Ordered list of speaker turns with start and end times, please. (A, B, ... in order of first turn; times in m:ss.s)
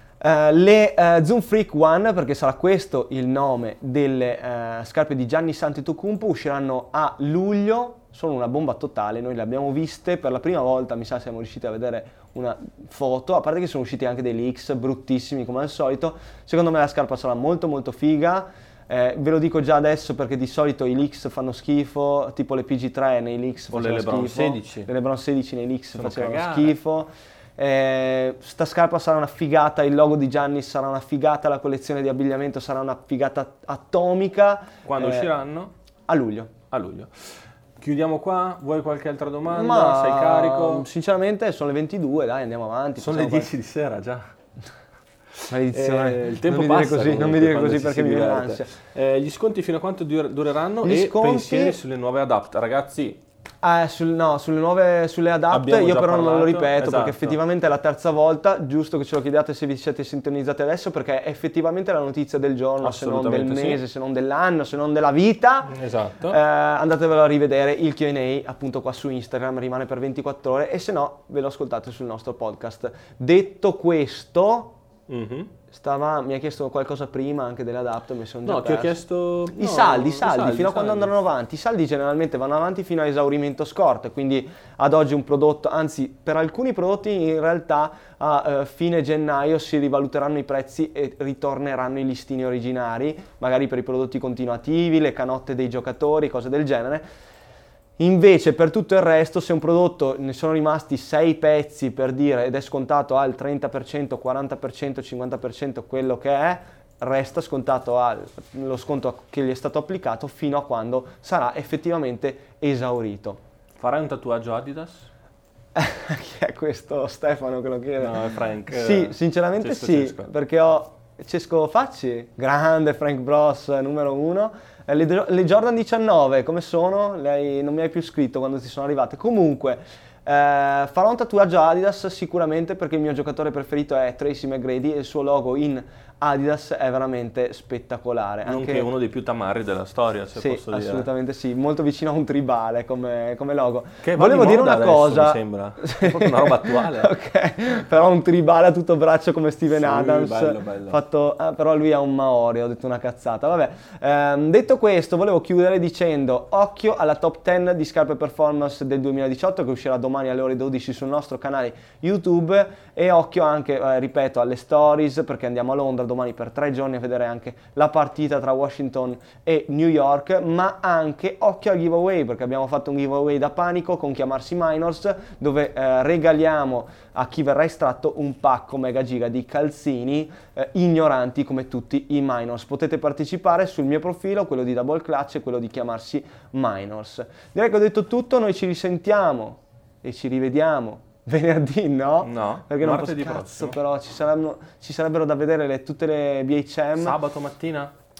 0:00.2-0:35.3 A
0:23.7-0:24.9 B
0:25.9-0:26.8 B
0:34.8-0:35.7 B
0:36.1-0:36.5 A
0:36.7-0:40.8 B
0:39.5-0:43.5 A
0:43.0-0:44.3 B
0:45.5-0:48.8 A
0:45.7-0:53.2 B
0:50.8-0:51.8 A
0:53.6-1:14.8 A
0:55.5-0:57.4 B
1:02.8-1:03.8 B
1:05.7-1:06.4 B
1:15.1-1:15.5 B
1:15.7-1:19.0 A
1:18.4-1:21.1 B
1:19.6-1:37.0 A
1:38.0-1:53.4 A
1:53.8-1:55.1 B
1:55.8-2:18.9 A
1:58.0-2:00.3 B
2:18.4-2:21.1 B
2:20.4-3:17.2 A
2:24.0-2:27.1 B
2:29.7-2:31.0 B
3:12.2-3:13.8 B
3:17.0-3:17.9 B